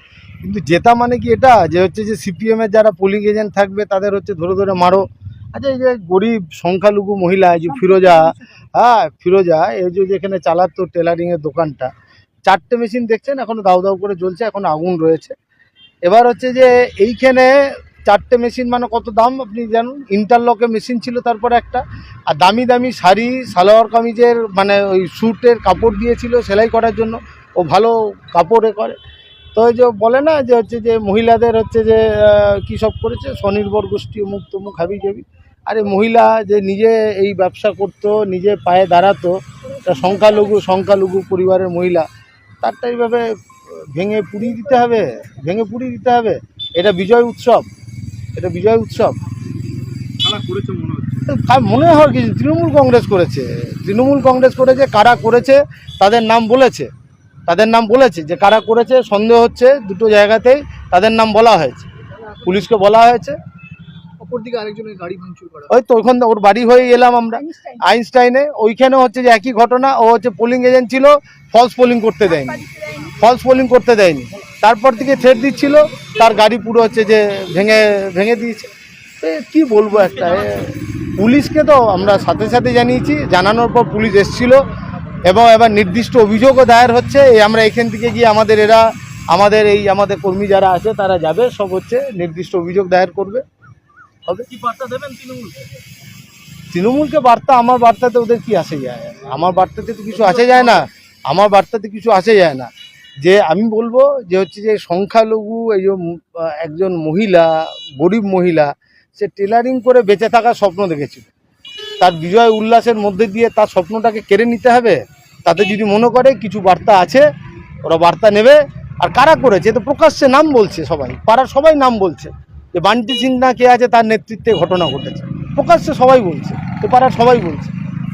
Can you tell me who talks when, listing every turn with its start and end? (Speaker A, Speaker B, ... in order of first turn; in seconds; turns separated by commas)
Speaker A: 0.4-5.0, Speaker A: 5.5-11.9, Speaker A: 12.5-15.3, Speaker A: 16.1-17.5, Speaker A: 18.1-29.0, Speaker A: 29.6-42.1, Speaker A: 42.6-47.7, Speaker A: 48.4-49.2, Speaker B: 50.2-51.3, Speaker A: 51.3-56.9, Speaker A: 57.5-63.4, Speaker B: 64.2-65.7, Speaker A: 65.7-78.7, Speaker A: 79.2-84.7, Speaker B: 79.9-80.7, Speaker A: 85.2-93.4, Speaker B: 94.5-95.6, Speaker A: 96.7-102.7, Speaker B: 100.1-100.8, Speaker A: 103.2-111.3, Speaker A: 112.0-117.3, Speaker A: 117.8-127.7